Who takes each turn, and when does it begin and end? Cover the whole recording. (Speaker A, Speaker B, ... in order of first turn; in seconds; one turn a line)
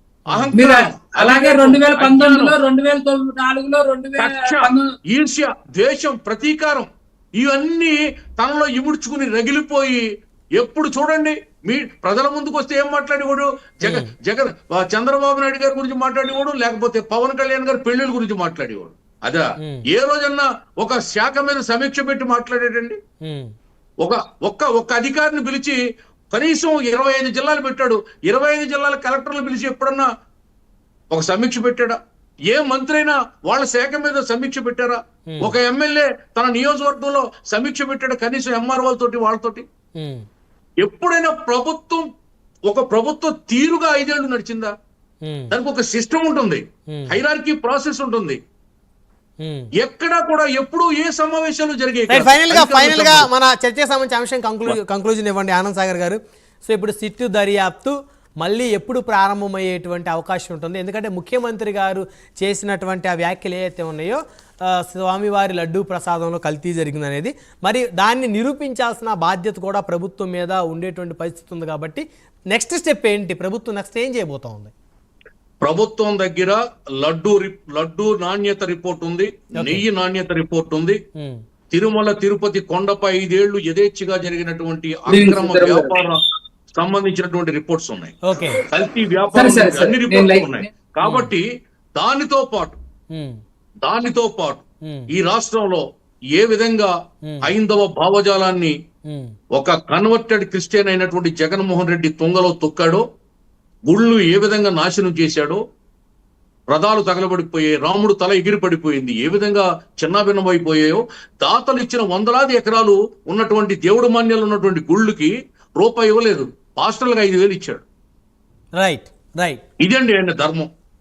Speaker A: 0.3-2.6
Speaker B: 0.3-0.5
Speaker C: 0.5-4.9
Speaker A: 4.2-10.0
Speaker A: 10.6-23.0
Speaker B: 13.8-14.1
Speaker B: 19.6-19.8
Speaker B: 23.2-23.5
Speaker A: 24.0-25.8
Speaker A: 26.3-30.1
Speaker A: 31.1-39.6
Speaker B: 35.3-35.5
Speaker B: 40.0-40.2
Speaker A: 40.8-42.0
Speaker A: 42.7-44.7
Speaker B: 45.2-45.5
Speaker A: 45.5-48.4
Speaker B: 46.9-47.2
Speaker B: 49.4-49.7
Speaker A: 49.8-53.3
Speaker B: 52.1-74.7
Speaker A: 75.6-81.0
Speaker B: 79.5-79.8
Speaker A: 81.7-86.2
Speaker C: 85.1-85.9
Speaker A: 86.7-91.4
Speaker B: 88.2-88.6
Speaker C: 89.3-90.7
Speaker B: 91.0-91.3
Speaker A: 92.0-92.8
Speaker A: 93.8-95.8
Speaker A: 96.3-96.9
Speaker B: 97.2-97.5
Speaker A: 97.4-98.7
Speaker A: 99.5-103.0
Speaker A: 103.9-105.6
Speaker A: 106.7-117.8
Speaker B: 118.8-119.6
Speaker A: 119.8-120.7